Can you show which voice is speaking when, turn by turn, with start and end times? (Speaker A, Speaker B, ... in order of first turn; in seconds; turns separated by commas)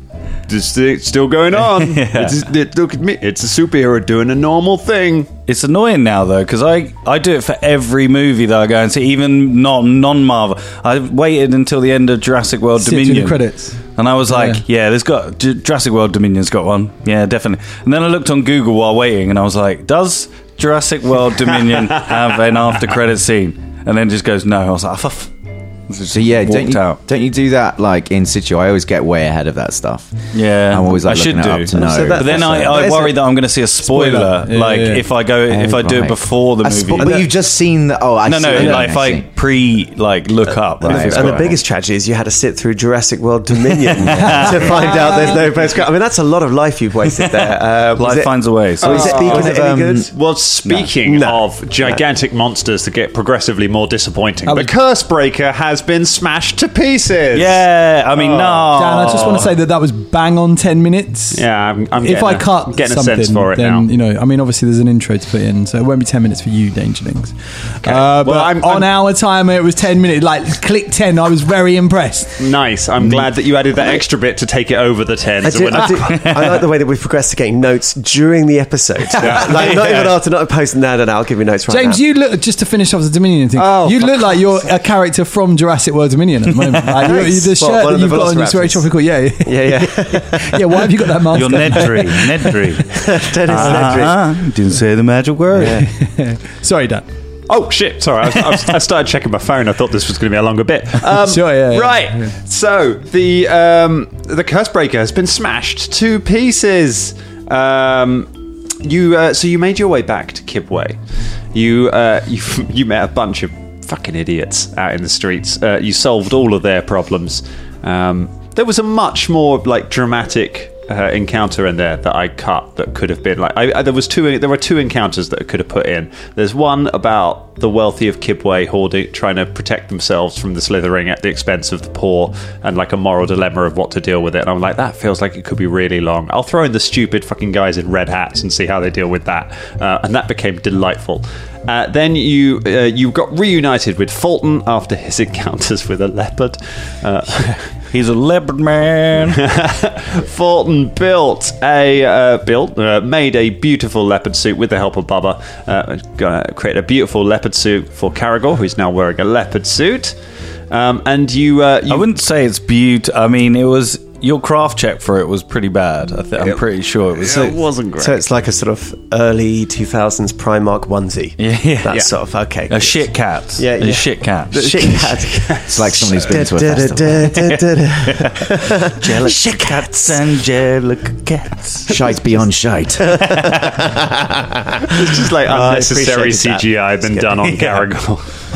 Speaker A: 0.5-5.3, Speaker B: 1.7-2.4, Speaker B: 5.5-25.3, Speaker C: 12.8-14.6, Speaker B: 25.9-27.0, Speaker D: 26.1-30.2, Speaker B: 30.3-37.2, Speaker D: 30.7-33.1, Speaker E: 31.7-33.2, Speaker C: 33.9-35.1, Speaker D: 35.5-39.3, Speaker E: 37.0-37.3, Speaker B: 38.2-41.5, Speaker E: 38.5-38.9, Speaker E: 40.8-50.1, Speaker D: 40.8-41.6, Speaker B: 43.7-45.1, Speaker C: 44.1-45.4, Speaker B: 47.1-49.1, Speaker D: 48.8-50.1, Speaker A: 48.8-49.6, Speaker A: 50.1-59.5, Speaker E: 51.0-52.0, Speaker C: 54.5-54.7, Speaker B: 57.3-59.5, Speaker C: 58.8-61.4, Speaker A: 61.3-63.9, Speaker C: 62.0-72.4, Speaker A: 67.8-68.9, Speaker A: 72.4-76.5, Speaker E: 75.4-82.0, Speaker B: 76.1-76.6, Speaker A: 79.2-79.7, Speaker B: 79.3-80.2, Speaker C: 81.7-92.6, Speaker A: 83.5-84.4, Speaker E: 87.0-88.8, Speaker E: 89.5-90.9, Speaker B: 91.3-95.9, Speaker E: 92.9-94.3, Speaker E: 95.5-95.8, Speaker C: 95.6-97.0, Speaker A: 97.5-108.3, Speaker C: 101.2-102.3, Speaker A: 108.8-111.0, Speaker A: 111.5-147.6, Speaker B: 147.9-149.4, Speaker A: 149.3-160.2, Speaker A: 160.7-162.1, Speaker B: 161.9-167.6, Speaker E: 167.2-180.2, Speaker A: 167.3-168.1, Speaker B: 171.4-172.1, Speaker B: 172.7-175.2, Speaker D: 175.7-177.4, Speaker B: 179.0-182.1, Speaker D: 181.9-183.2, Speaker E: 183.1-187.6, Speaker B: 183.2-183.8, Speaker A: 184.9-188.3